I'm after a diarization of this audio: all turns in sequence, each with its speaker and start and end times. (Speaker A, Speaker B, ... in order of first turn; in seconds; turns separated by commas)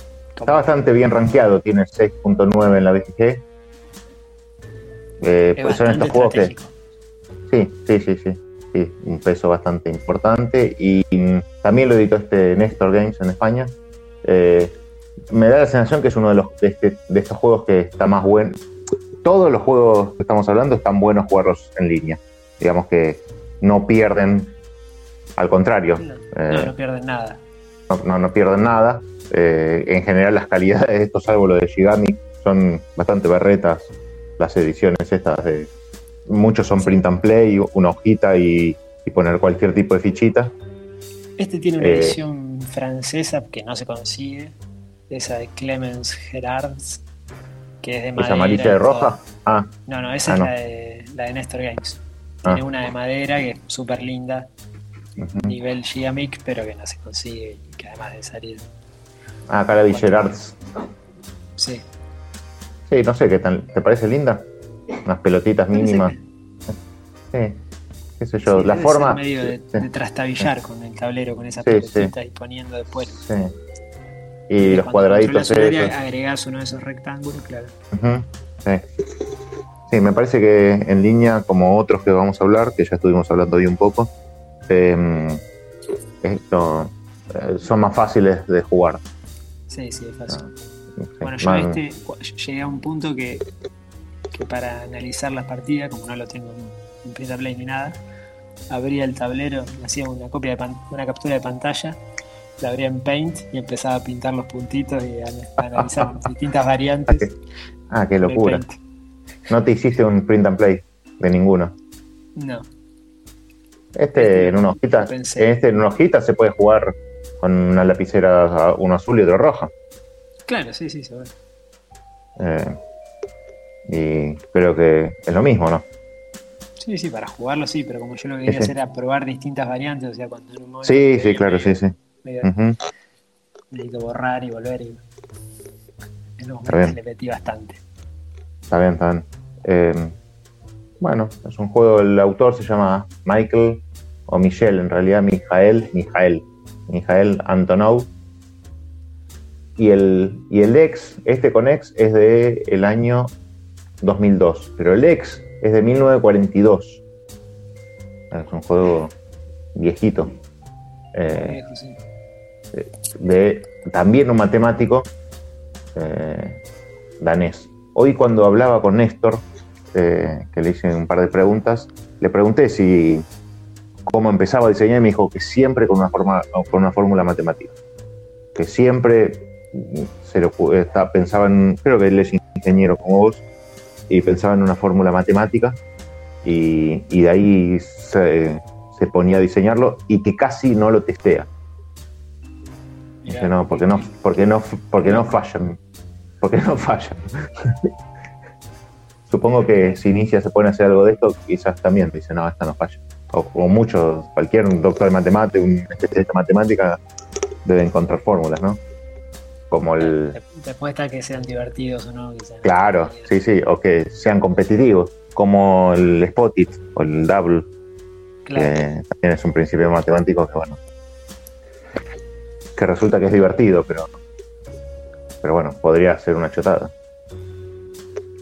Speaker A: 0.3-0.8, Speaker B: 0.5-3.4, Speaker B: 5.2-6.5, Speaker A: 5.6-6.7, Speaker B: 7.5-14.8, Speaker B: 15.3-18.6, Speaker B: 19.2-24.6, Speaker B: 25.4-26.7, Speaker A: 26.0-27.4, Speaker B: 27.9-35.7, Speaker B: 36.3-40.5, Speaker A: 41.4-44.5, Speaker B: 41.8-42.2, Speaker A: 45.1-47.0, Speaker A: 47.8-49.2, Speaker B: 48.2-49.7, Speaker A: 49.9-54.5, Speaker B: 55.2-55.6, Speaker A: 55.4-58.7, Speaker B: 59.5-60.6, Speaker A: 59.9-60.4, Speaker A: 61.6-61.9, Speaker B: 62.9-64.5, Speaker B: 65.0-66.1, Speaker A: 65.7-66.2, Speaker B: 67.3-67.6, Speaker B: 68.2-69.8, Speaker A: 68.5-73.2, Speaker B: 71.6-72.1, Speaker B: 73.1-73.6, Speaker B: 74.5-75.9, Speaker A: 74.6-77.7, Speaker B: 77.9-78.9, Speaker B: 79.9-84.1, Speaker B: 84.7-85.4, Speaker B: 86.2-89.0, Speaker A: 89.7-90.5, Speaker B: 91.1-91.8, Speaker A: 91.2-93.5, Speaker A: 94.3-98.0, Speaker A: 98.7-102.0, Speaker A: 102.6-107.3, Speaker B: 105.8-106.0, Speaker B: 107.9-108.6, Speaker A: 108.2-108.8, Speaker B: 109.5-111.8, Speaker A: 112.4-112.7, Speaker B: 114.0-119.7, Speaker A: 114.2-115.6, Speaker A: 120.5-121.3, Speaker B: 122.4-122.8, Speaker B: 123.9-125.9, Speaker A: 126.8-132.5, Speaker B: 128.5-128.7, Speaker B: 130.8-132.8, Speaker A: 133.7-135.0, Speaker A: 136.4-137.8, Speaker B: 136.7-137.0, Speaker B: 138.7-140.2, Speaker B: 141.0-148.1, Speaker B: 149.8-153.3, Speaker B: 154.0-157.0, Speaker B: 158.3-159.1, Speaker B: 159.8-160.3, Speaker B: 161.1-161.6, Speaker A: 161.3-162.0, Speaker B: 162.7-165.1, Speaker B: 165.9-166.6, Speaker B: 167.2-173.3, Speaker B: 174.1-177.8, Speaker B: 178.6-183.4, Speaker B: 184.1-185.8, Speaker B: 186.4-191.5, Speaker A: 193.2-194.1, Speaker B: 193.3-195.8, Speaker A: 195.0-195.3, Speaker B: 196.4-197.9, Speaker B: 199.3-207.0, Speaker B: 207.7-208.8, Speaker B: 209.7-210.4, Speaker A: 210.0-213.3, Speaker B: 212.6-217.7, Speaker A: 218.5-218.8, Speaker B: 218.6-220.8, Speaker B: 222.8-224.1, Speaker B: 225.4-226.9